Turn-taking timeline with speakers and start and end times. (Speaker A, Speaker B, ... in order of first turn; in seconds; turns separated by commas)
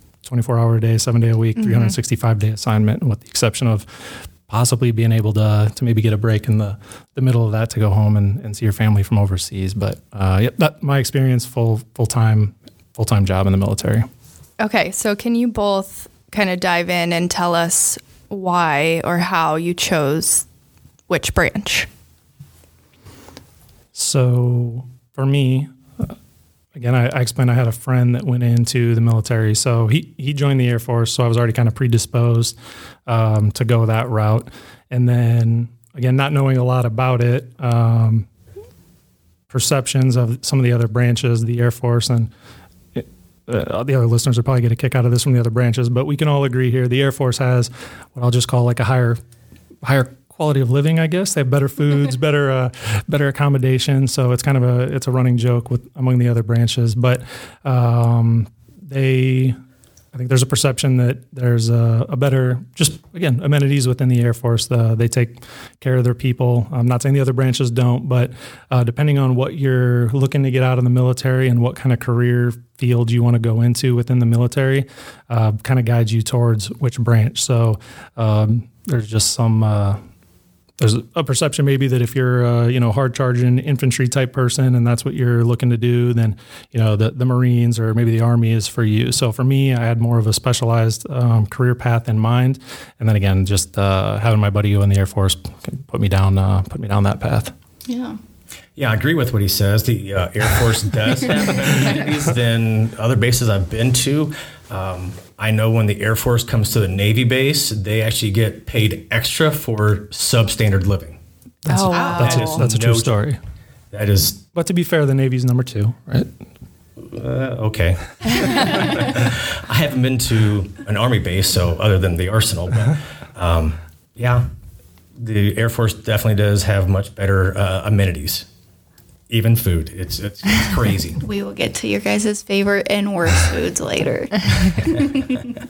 Speaker A: 0.2-14.1, Speaker B: 1.6-1.9, Speaker B: 14.6-20.5, Speaker B: 21.1-21.9, Speaker A: 23.9-26.1, Speaker A: 26.8-32.6, Speaker A: 33.1-38.3, Speaker A: 39.5-42.3, Speaker A: 43.0-49.2, Speaker A: 49.8-59.6, Speaker A: 60.1-80.0, Speaker A: 80.8-97.5, Speaker C: 97.9-98.2, Speaker D: 98.8-111.2, Speaker A: 111.7-113.4, Speaker B: 111.7-112.6, Speaker C: 111.9-112.4, Speaker D: 112.1-113.1, Speaker D: 113.9-114.4, Speaker A: 114.5-116.3, Speaker D: 117.0-124.5, Speaker D: 125.2-128.5, Speaker D: 129.3-131.2, Speaker C: 131.2-135.4